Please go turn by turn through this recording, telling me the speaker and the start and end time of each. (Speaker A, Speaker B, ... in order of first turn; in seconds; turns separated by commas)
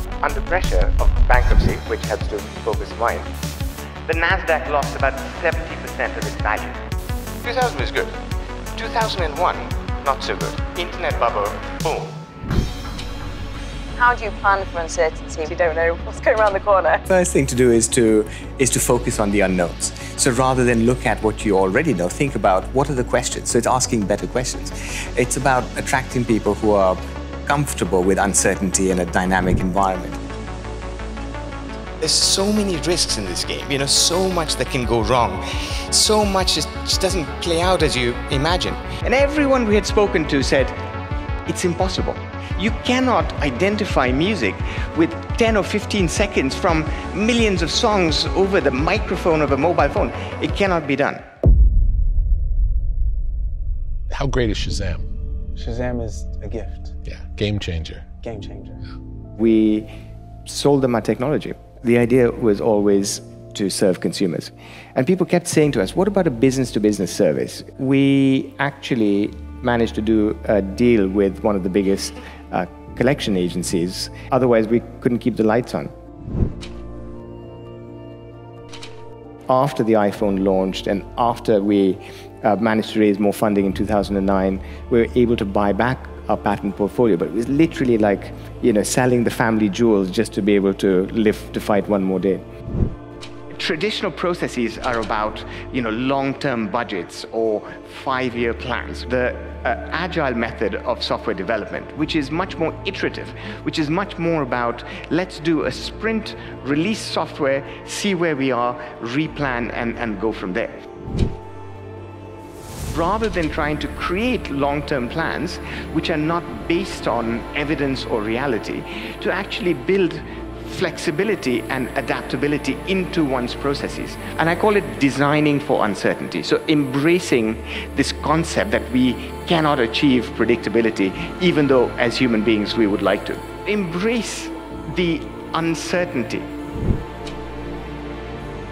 Speaker A: 0.2-3.3, Speaker A: 4.0-6.8, Speaker A: 7.4-8.1, Speaker A: 8.8-12.2, Speaker B: 14.0-17.0, Speaker A: 17.1-30.2, Speaker A: 32.0-40.8, Speaker A: 41.5-51.2, Speaker C: 54.1-55.1, Speaker D: 55.5-57.0, Speaker C: 57.0-58.1, Speaker D: 58.2-58.8, Speaker A: 59.4-59.9, Speaker A: 60.4-75.9, Speaker A: 79.5-92.4, Speaker A: 93.5-110.8, Speaker A: 112.9-136.5